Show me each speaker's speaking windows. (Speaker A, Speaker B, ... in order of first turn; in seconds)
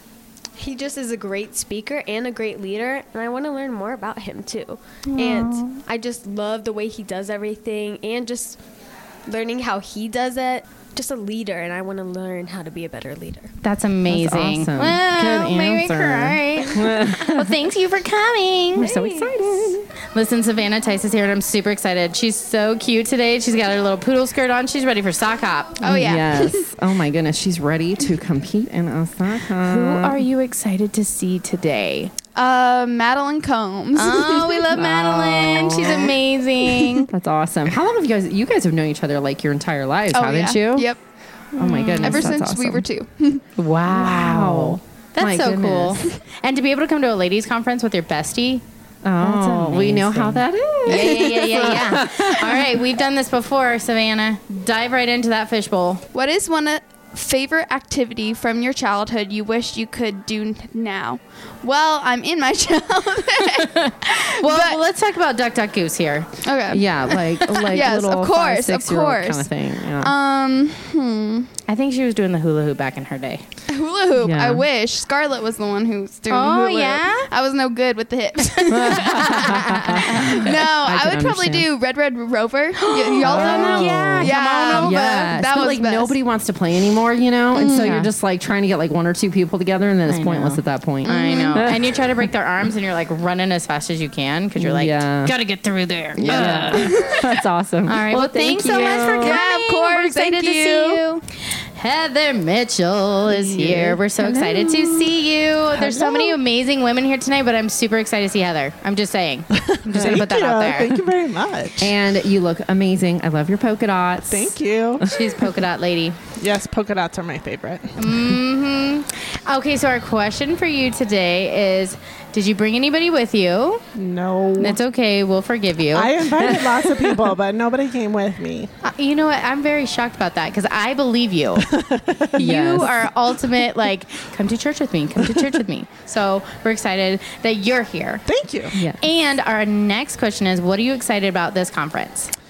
Speaker A: 0.6-8.6, 9.2-13.5, 18.8-19.3
Speaker B: 5.1-5.8, 13.6-18.9, 20.1-25.9, 29.6-32.1, 33.9-37.1, 41.7-42.3, 43.6-48.6, 49.2-56.0, 64.3-66.4, 71.7-73.4, 76.3-77.3, 79.1-80.4, 83.0-85.0, 87.7-88.1, 90.1-96.8, 97.8-101.0, 101.7-110.9, 115.1-116.2, 118.0-123.8, 124.6-126.2, 128.8-131.7, 132.3-138.2, 138.8-142.3
Speaker C: 14.1-17.4, 18.8-19.9, 25.8-30.2, 34.7-36.1, 37.1-41.0, 41.5-42.8, 43.9-46.0, 49.0-52.8, 66.7-70.1, 74.2-74.6, 78.7-81.7, 83.2-91.8, 94.6-95.3, 96.2-99.4, 103.3-104.0, 111.8-115.0, 126.4-127.1, 132.4-132.8
Speaker D: 25.8-26.6, 32.3-34.6, 40.1-41.0, 41.5-43.4, 56.1-64.8, 66.4-71.5, 73.7-86.2, 87.5-87.9, 91.0-91.5, 96.2-97.3, 98.3-101.2
Speaker E: 109.9-111.9, 114.3-115.0, 116.4-118.3, 123.9-124.8, 125.9-128.7, 131.7-132.3, 138.2-138.7